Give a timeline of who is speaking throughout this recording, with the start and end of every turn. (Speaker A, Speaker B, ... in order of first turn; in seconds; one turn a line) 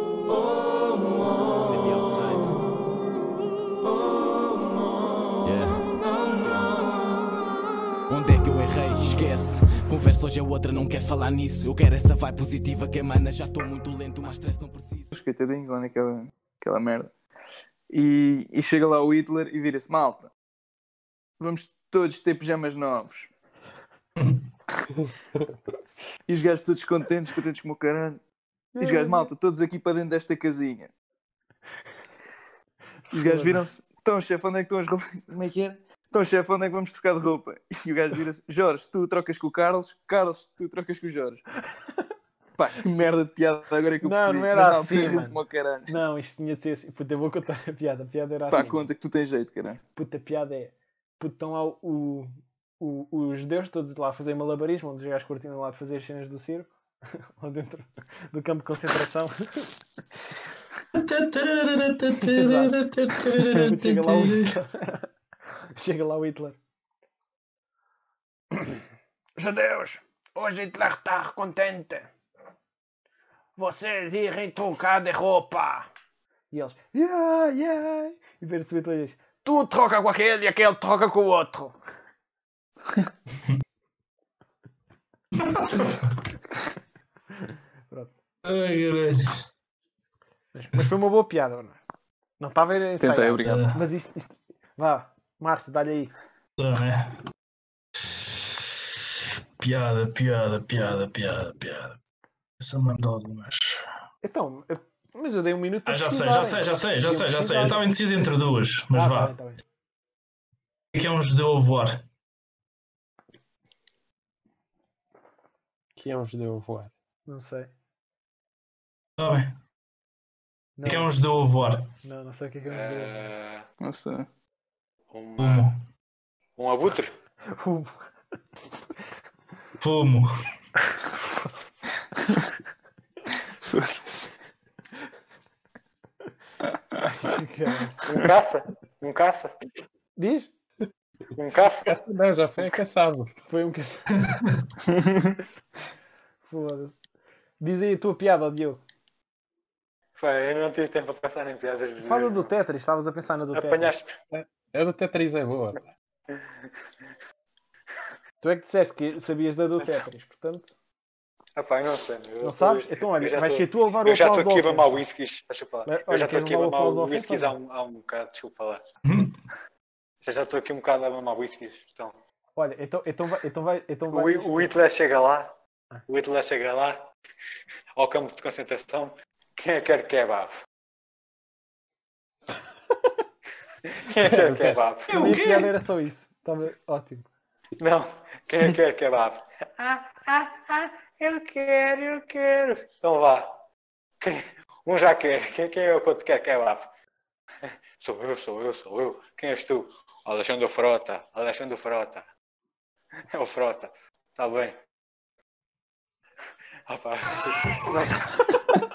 Speaker A: 1.6-2.7
Speaker A: 5.4-6.8
Speaker A: 8.1-15.1
Speaker B: 15.1-17.1
Speaker B: 17.9-20.3
Speaker B: 21.4-23.3
Speaker C: 24.2-24.5
Speaker D: 25.0-25.5
Speaker B: 26.3-28.2
Speaker E: 28.7-29.3
Speaker B: 28.8-30.9
Speaker E: 33.1-33.6
Speaker B: 33.1-41.4
Speaker B: 42.6-45.9
Speaker E: 44.0-48.9
Speaker B: 48.5-49.8
Speaker E: 50.0-59.7
Speaker C: 60.9-64.5
Speaker E: 62.2-62.8
Speaker E: 63.5-65.1
Speaker E: 65.8-66.6
Speaker E: 68.5-68.8
Speaker E: 69.4-72.1
Speaker E: 73.6-75.9
Speaker E: 76.5-81.8
Speaker C: 85.4-86.1
Speaker C: 88.4-89.4
Speaker E: 90.5-91.8
Speaker E: 92.4-96.1
Speaker B: 93.0-93.6
Speaker C: 93.5-93.9
Speaker C: 96.6-97.2
Speaker C: 98.1-98.7
Speaker C: 99.6-102.0
Speaker C: 102.6-103.8
Speaker E: 104.2-107.9
Speaker C: 105.9-109.3
Speaker E: 108.9-109.6
Speaker C: 110.9-112.0
Speaker D: 116.0-116.9
Speaker E: 117.3-117.7
Speaker C: 119.2-119.5
Speaker E: 120.8-121.2
Speaker C: 120.8-121.9
Speaker E: 122.0-123.3
Speaker F: 122.7-123.6
Speaker B: 123.8-124.3
Speaker F: 125.1-125.7
Speaker C: 125.4-125.8
Speaker F: 126.6-127.1
Speaker E: 127.5-128.0
Speaker C: 129.8-130.3
Speaker E: 131.2-131.5
Speaker B: 133.6-134.3
Speaker E: 137.1-138.0
Speaker F: 138.0-139.5
Speaker E: 140.2-140.5
Speaker F: 141.3-141.9
Speaker D: 141.8-143.3
Speaker E: 143.5-144.1
Speaker C: 144.2-144.7
Speaker E: 146.5-147.0
Speaker E: 147.6-148.8
Speaker F: 150.2-152.5
Speaker E: 152.0-153.9
Speaker F: 153.5-154.2
Speaker D: 154.3-155.9
Speaker E: 158.4-160.7
Speaker F: 161.6-168.8
Speaker E: 162.4-165.0
Speaker E: 165.9-167.6
Speaker C: 169.1-169.4
Speaker F: 170.2-172.2
Speaker E: 172.6-174.7
Speaker F: 174.1-175.5
Speaker F: 176.1-177.1
Speaker F: 178.0-180.6
Speaker F: 183.9-185.2
Speaker E: 184.3-187.3
Speaker C: 185.1-185.7
Speaker F: 187.8-193.7
Speaker F: 194.2-196.9
Speaker F: 197.7-202.3
Speaker F: 203.3-204.8
Speaker F: 206.9-208.3